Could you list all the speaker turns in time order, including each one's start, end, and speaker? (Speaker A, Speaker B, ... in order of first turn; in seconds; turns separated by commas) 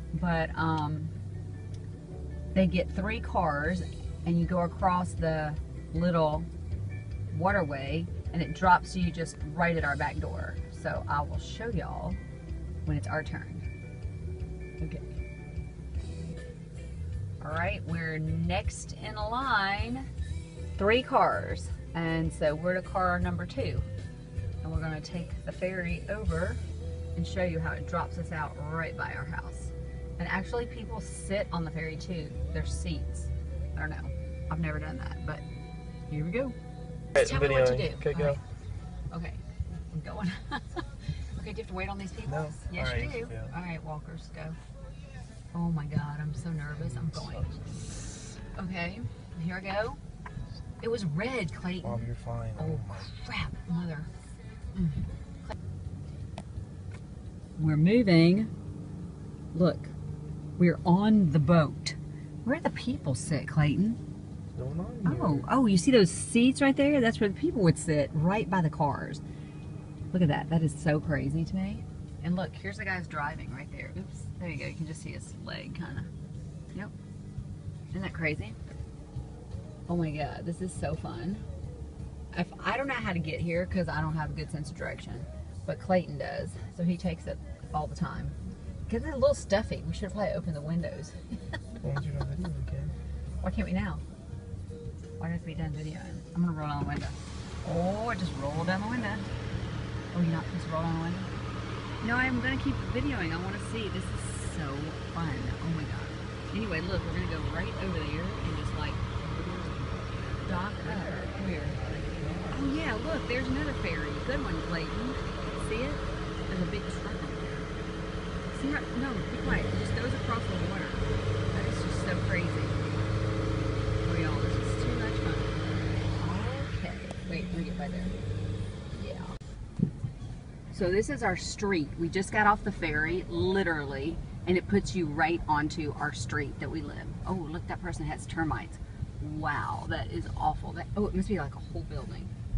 Speaker A: 0.1-1.1, Speaker A: 2.5-6.5, Speaker A: 7.3-12.2, Speaker A: 12.8-13.7, Speaker A: 14.8-15.0, Speaker A: 17.4-20.1, Speaker A: 20.8-23.9, Speaker A: 24.6-26.6, Speaker A: 27.1-35.4, Speaker A: 36.1-36.5, Speaker A: 37.1-38.4, Speaker B: 37.2-38.3, Speaker A: 39.1-44.6, Speaker B: 42.3-43.5, Speaker A: 45.5-48.0, Speaker B: 46.9-47.4, Speaker A: 48.5-50.0, Speaker A: 50.8-54.1, Speaker B: 51.8-53.1, Speaker A: 54.7-55.5, Speaker A: 57.6-58.5, Speaker A: 59.5-59.9, Speaker A: 60.6-64.0, Speaker B: 64.5-65.5, Speaker A: 65.0-69.2, Speaker A: 70.1-76.1, Speaker A: 77.9-78.6, Speaker A: 79.9-81.4, Speaker A: 82.3-88.3, Speaker A: 88.9-91.5, Speaker B: 91.8-92.9, Speaker A: 93.4-94.0, Speaker A: 95.2-99.3, Speaker A: 100.1-101.3, Speaker A: 102.0-109.0, Speaker B: 109.3-112.6, Speaker A: 110.4-111.8, Speaker A: 112.5-117.7, Speaker A: 118.5-122.8, Speaker A: 124.0-125.6, Speaker A: 126.1-128.1, Speaker A: 128.9-129.3, Speaker A: 130.7-142.3